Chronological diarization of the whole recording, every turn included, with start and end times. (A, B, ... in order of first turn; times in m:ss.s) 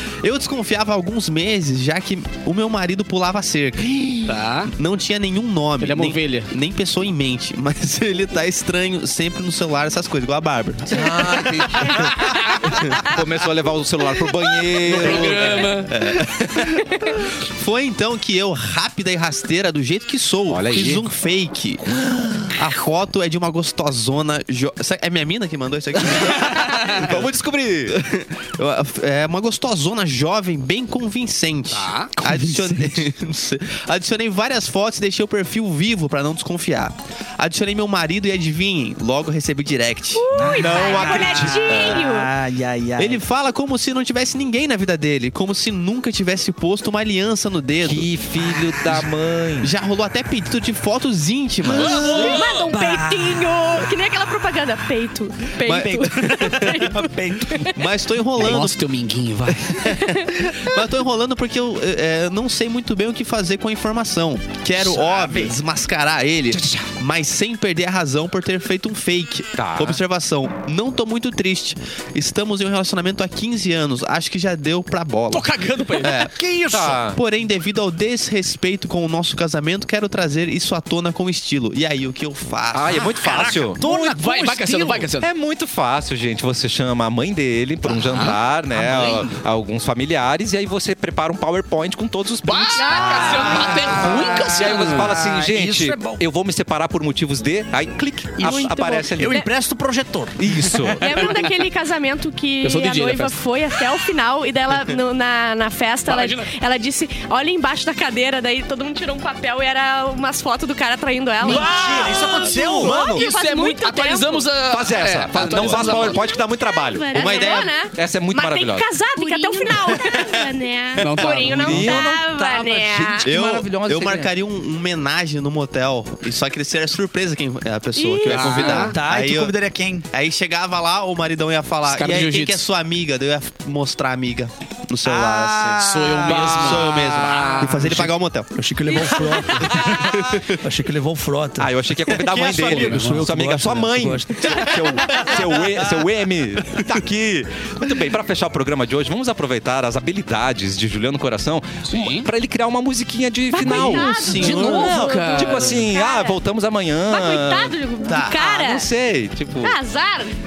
0:00.2-0:13.1 A
0:04.3-0:04.7 B
0:05.8-0:06.5 B
0:10.9-0:15.6 C
0:14.8-0:21.8 A
0:14.9-0:15.9 B
0:20.5-0:21.0 C
0:21.8-0:22.6 C
0:22.6-0:27.3 A
0:26.0-0:28.0 C
0:26.7-0:26.9 B
0:27.9-0:40.3 A
0:31.7-0:32.1 B
0:32.2-0:33.1 D
0:40.2-0:42.3 E
0:40.4-0:43.2 D
0:40.4-0:42.0 C
0:43.0-0:48.1 A
0:47.8-0:49.7 C
0:49.6-0:52.4 A
0:51.6-0:52.0 C
0:51.7-0:53.6 D
0:51.8-0:57.8 E
0:55.6-0:56.9 A
0:55.7-0:57.7 D
0:57.7-0:58.8 A
0:58.4-0:59.8 B
0:59.5-1:15.5 A
1:04.8-1:05.6 D
1:06.5-1:06.8 D
1:09.6-1:10.0 C
1:15.3-1:16.2 B
1:16.0-1:16.3 A
1:16.1-1:17.0 D
1:16.7-1:17.2 C
1:17.2-1:23.6 A
1:22.7-1:23.8 C
1:23.0-1:25.1 D
1:23.8-1:25.3 B
1:25.2-1:39.4 C
1:27.9-1:28.4 B
1:28.8-1:29.2 D
1:32.4-1:35.1 B
1:32.8-1:34.2 E
1:33.2-1:36.2 D
1:38.4-1:40.4 D
1:38.4-1:39.5 E
1:40.4-1:41.3 C
1:40.9-1:41.4 B
1:41.0-1:54.5 E
1:42.6-1:43.4 B
1:46.1-1:46.5 B
1:51.4-1:53.0 D
1:52.6-1:56.2 B
1:52.8-1:53.2 A
1:54.7-1:58.9 C
1:55.5-2:03.2 E
1:57.1-1:57.8 A
1:59.3-1:59.9 D
1:59.7-2:00.5 A
2:01.0-2:02.0 B
2:01.1-2:01.4 A
2:01.5-2:02.3 C
2:01.9-2:04.1 D
2:02.9-2:04.3 C
2:03.2-2:09.5 A
2:08.0-2:08.9 E
2:08.3-2:09.0 B
2:08.8-2:10.1 D
2:10.1-2:18.5 A
2:11.9-2:12.6 B
2:15.0-2:16.7 D
2:15.6-2:18.1 B
2:16.7-2:17.8 C
2:18.5-2:21.7 D
2:18.9-2:19.8 E
2:19.8-2:20.6 A
2:21.6-2:39.8 C
2:22.2-2:22.9 A
2:22.3-2:24.6 D
2:22.6-2:23.3 B
2:24.4-2:26.0 A
2:31.9-2:32.3 B
2:33.5-2:36.4 E
2:33.5-2:35.2 A
2:34.2-2:35.8 B
2:37.1-2:38.9 E
2:38.0-2:38.4 A
2:39.6-2:40.4 E